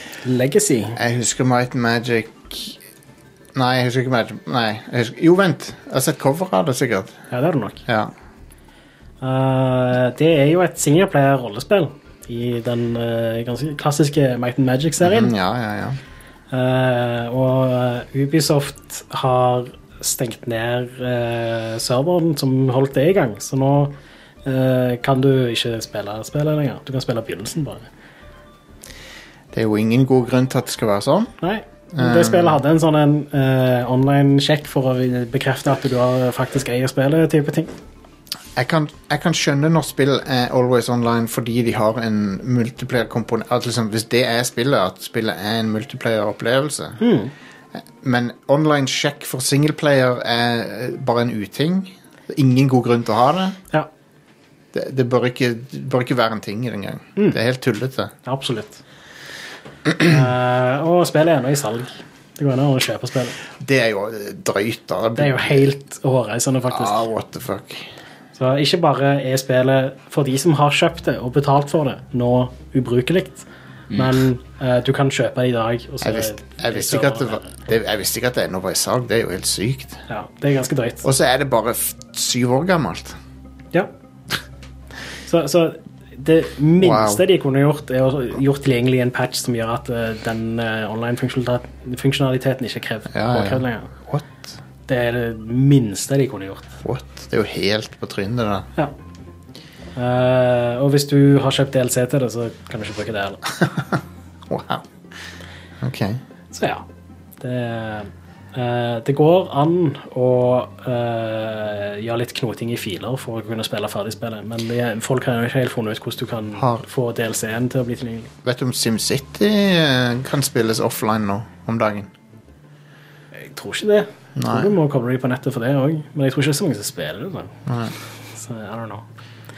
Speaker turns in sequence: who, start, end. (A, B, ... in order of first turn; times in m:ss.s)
0:00.2-0:01.0 A
0:01.0-0:02.8 B
0:03.5-0:07.2 B
0:07.3-0:07.8 A
0:07.9-0:08.1 B
0:09.2-0:15.3 A
0:15.0-0:16.0 B
0:16.5-0:23.9 A
0:24.4-0:27.9 A
0:29.5-0:31.3 B
0:31.4-0:37.7 A
0:32.0-0:32.6 B
0:38.6-0:47.0 B
0:47.0-0:47.3 A
0:47.8-0:53.6 B
0:54.7-0:58.1 B
0:58.2-0:58.8 A
0:59.9-1:03.4 A
1:03.6-1:05.6 B
1:05.2-1:07.0 A
1:06.7-1:07.9 B
1:08.4-1:17.6 A
1:16.0-1:20.0 B
1:20.1-1:21.0 A
1:21.0-1:23.2 B
1:25.3-1:33.9 A
1:26.8-1:27.2 B
1:33.1-1:34.5 B
1:34.9-1:36.7 A
1:36.8-1:38.7 B
1:40.0-1:43.4 A
1:44.5-1:44.8 B
1:45.8-1:46.2 B
1:46.5-1:46.8 A
1:47.4-1:58.3 A
1:56.6-1:56.8 B
1:58.4-2:02.1 B
2:03.4-2:07.5 A
2:04.4-2:04.7 B
2:07.7-2:07.9 B
2:08.4-2:09.0 A